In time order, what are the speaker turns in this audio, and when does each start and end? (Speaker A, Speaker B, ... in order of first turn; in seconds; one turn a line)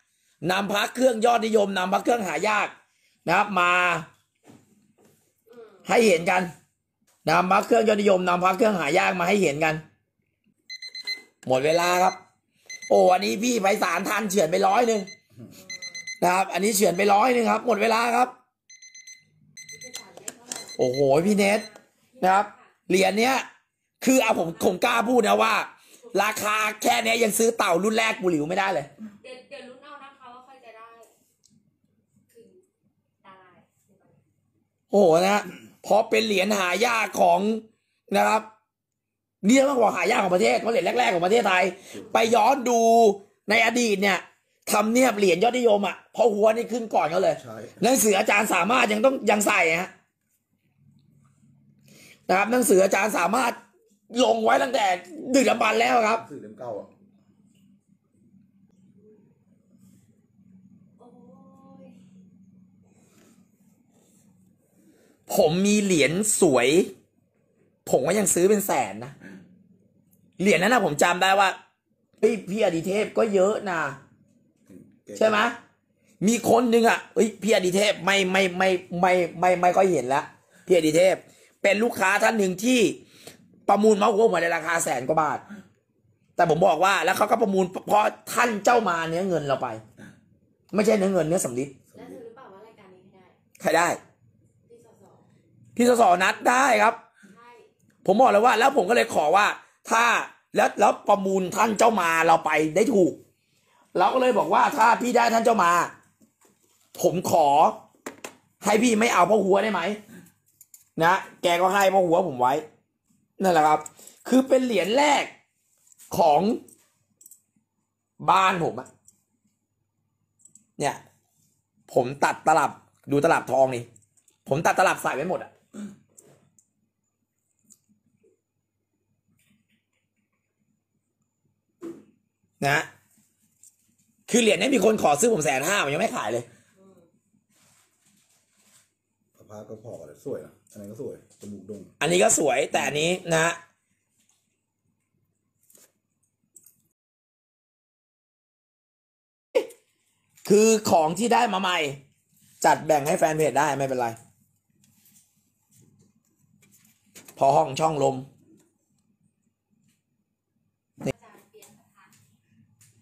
Speaker A: 0.4-2.7
Speaker A: 3.3-4.1
Speaker A: 5.9-6.5
Speaker A: 7.2-9.8
Speaker A: 11.4-12.2
Speaker A: 12.9-15.1
Speaker A: 16.2-18.3
Speaker B: 19.7-22.6
Speaker A: 20.8-21.7
Speaker A: 22.2-23.5
Speaker A: 24.0-28.9
Speaker B: 29.2-31.1
Speaker B: 32.3-32.6
Speaker B: 33.2-34.2
Speaker A: 34.9-38.5
Speaker A: 39.4-49.9
Speaker C: 47.4-47.8
Speaker A: 52.3-53.6
Speaker A: 54.1-56.2
Speaker C: 56.1-56.9
Speaker B: 61.0-62.0
Speaker A: 65.3-66.9
Speaker A: 67.9-69.1
Speaker A: 70.4-71.6
Speaker A: 72.2-74.0
Speaker C: 74.7-75.5
Speaker A: 75.2-75.6
Speaker A: 76.2-83.0
Speaker A: 83.7-85.4
Speaker A: 86.4-89.8
Speaker A: 90.7-91.8
Speaker C: 91.9-92.2
Speaker B: 91.9-93.4
Speaker A: 93.6-94.0
Speaker B: 94.7-95.2
Speaker A: 95.8-97.0
Speaker B: 97.3-97.7
Speaker A: 98.0-103.2
Speaker A: 104.0-105.9
Speaker A: 107.0-107.8
Speaker A: 108.6-110.0
Speaker A: 111.0-112.6
Speaker A: 113.4-115.3
Speaker A: 116.1-116.6
Speaker A: 118.2-118.9
Speaker A: 121.9-123.9
Speaker A: 124.5-125.5
Speaker A: 132.6-132.9
Speaker A: 134.3-136.5
Speaker C: 139.3-141.9
Speaker A: 142.0-143.6
Speaker A: 150.5-152.0
Speaker A: 152.6-154.2
Speaker A: 157.4-158.3
Speaker B: 161.1-162.1